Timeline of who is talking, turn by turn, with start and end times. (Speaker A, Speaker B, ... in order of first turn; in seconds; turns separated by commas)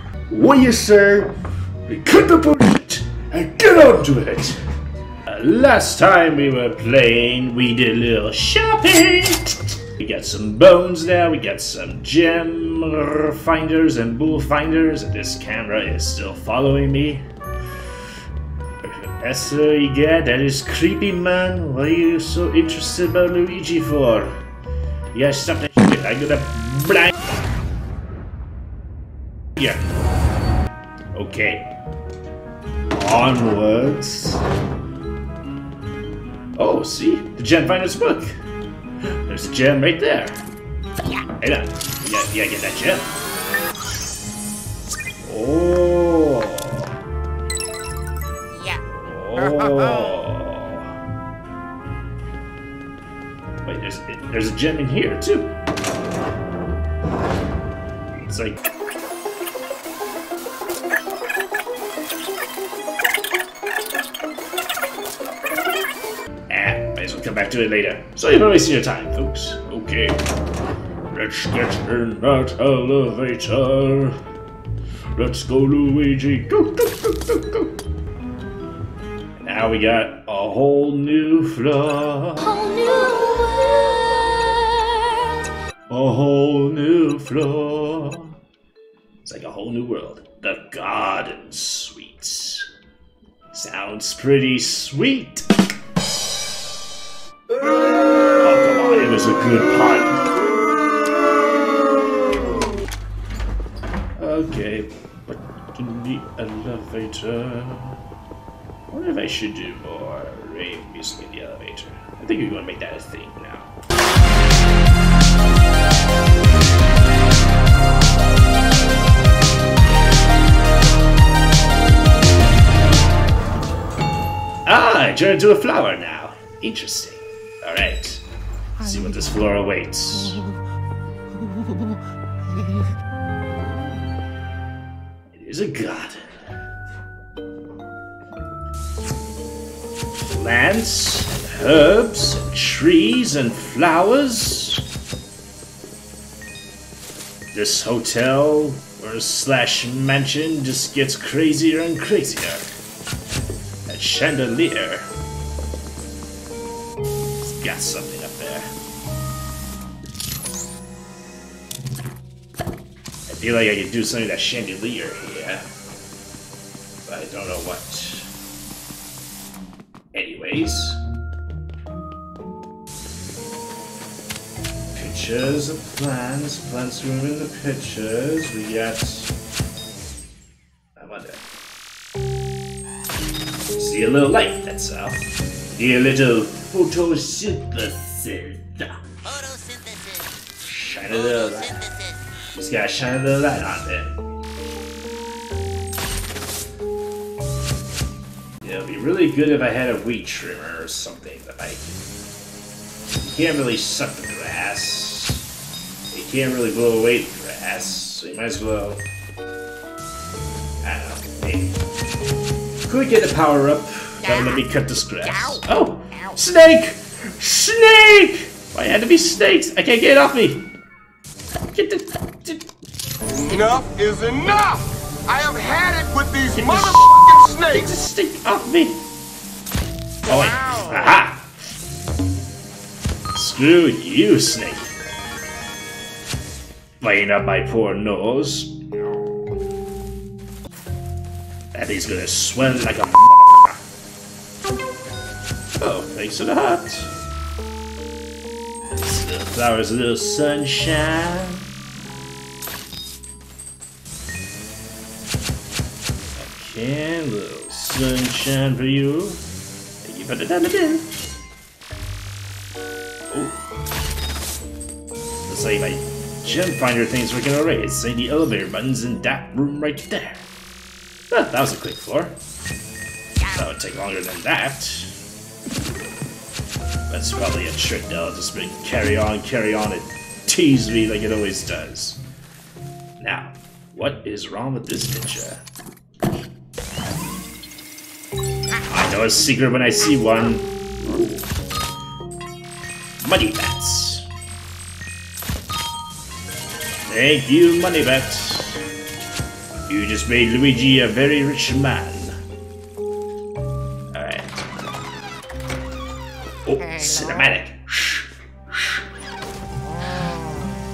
Speaker A: 0.3-1.4, Speaker A: 1.9-4.6, Speaker A: 5.3-17.2, Speaker A: 18.8-24.3, Speaker A: 25.1-27.1, Speaker A: 29.6-29.8, Speaker A: 31.1-31.7, Speaker A: 32.9-34.4, Speaker A: 36.6-38.4, Speaker A: 39.0-40.4, Speaker A: 41.4-43.1, Speaker A: 45.2-46.9, Speaker B: 48.5-48.9, Speaker A: 48.9-50.9, Speaker B: 49.4-50.2, Speaker A: 53.6-55.6, Speaker A: 58.2-58.6, Speaker A: 66.5-70.2, Speaker A: 71.1-74.2, Speaker A: 75.2-77.7, Speaker A: 79.4-84.9, Speaker A: 85.9-88.3, Speaker A: 89.2-92.7, Speaker A: 93.5-95.6, Speaker A: 98.4-100.3, Speaker A: 104.2-108.0, Speaker A: 108.9-113.7, Speaker A: 124.7-128.2, Speaker A: 128.8-130.4, Speaker A: 135.3-136.3, Speaker A: 140.3-144.8, Speaker A: 147.5-152.7, Speaker A: 153.9-155.1, Speaker A: 157.4-158.7, Speaker A: 163.3-165.7, Speaker A: 167.1-168.3, Speaker A: 170.1-171.0, Speaker A: 174.9-179.3, Speaker A: 181.0-181.4, Speaker A: 183.8-189.0, Speaker A: 190.6-194.2, Speaker A: 198.6-202.0, Speaker A: 203.2-205.4, Speaker A: 206.1-209.0, Speaker A: 210.8-211.8, Speaker A: 212.9-220.7, Speaker B: 214.2-216.4, Speaker A: 221.7-222.7, Speaker C: 223.3-227.9, Speaker A: 226.5-229.0, Speaker B: 230.3-231.2, Speaker A: 230.3-231.6, Speaker A: 233.3-234.9, Speaker A: 237.0-239.1, Speaker A: 241.7-243.8, Speaker A: 245.7-247.1, Speaker A: 248.9-251.7, Speaker A: 256.4-259.4, Speaker A: 260.0-261.2, Speaker A: 263.3-263.6, Speaker A: 265.5-270.5, Speaker A: 271.3-272.4, Speaker B: 273.4-273.7, Speaker A: 273.6-275.1, Speaker A: 277.1-282.2, Speaker A: 283.2-285.6, Speaker A: 288.9-291.5, Speaker A: 293.2-294.3, Speaker A: 297.1-298.8, Speaker A: 299.9-302.4, Speaker A: 304.1-304.7, Speaker A: 306.6-309.0, Speaker B: 306.8-307.5, Speaker B: 309.9-310.7